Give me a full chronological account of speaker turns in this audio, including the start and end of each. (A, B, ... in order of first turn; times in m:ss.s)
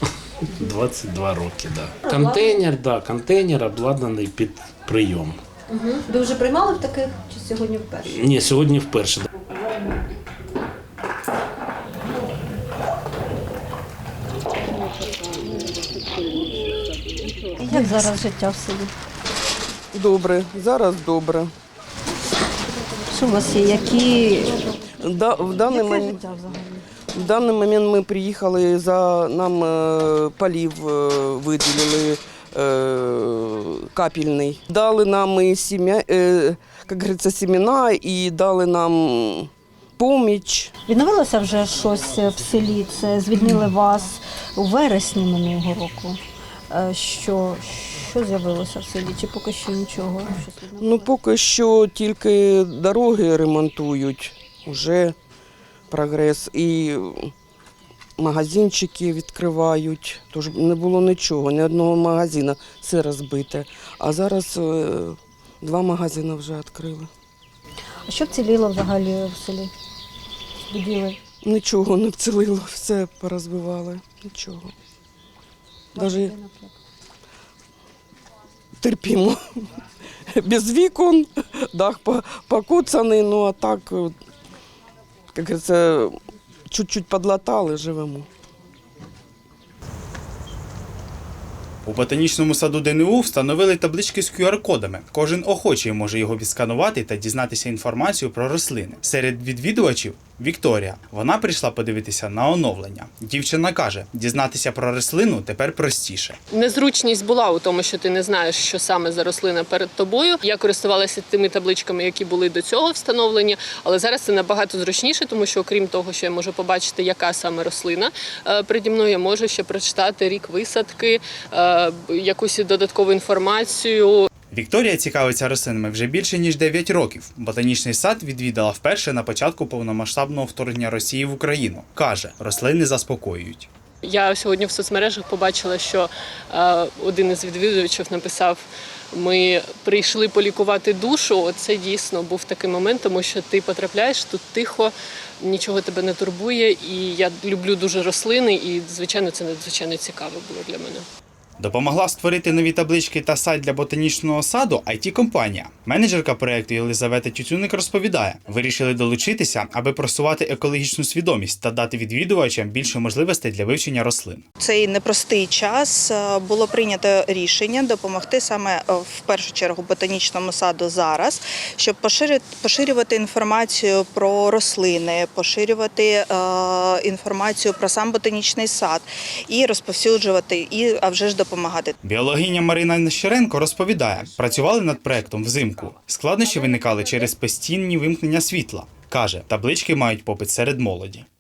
0:00.5-0:05.4 A
0:08.0-0:09.3 A
0:17.6-0:18.9 B
0:19.9-0:21.5 C
0:23.1-0:24.6 B
0:25.0-0:26.2 C
0:25.7-0:26.8 B
0:27.1-0:40.7 C
0:40.9-0:46.2 B
0:46.7-0:51.1 B
0:50.8-0:55.2 C
0:55.9-0:57.3 C
0:58.2-1:07.1 C
1:08.1-1:09.7 B
1:10.7-1:11.2 B
1:11.4-1:14.7 C
1:16.0-1:16.5 B
1:16.0-1:16.4 C
1:18.8-1:19.6 C
1:20.3-1:24.1 C
1:25.4-1:26.1 C
1:26.7-1:28.3 C
1:31.8-1:46.4 D
1:46.5-2:04.3 E
2:04.5-2:13.7 D
2:14.0-2:31.0 E
2:31.6-2:44.4 D
2:44.6-3:01.9 F
3:02.0-3:11.3 D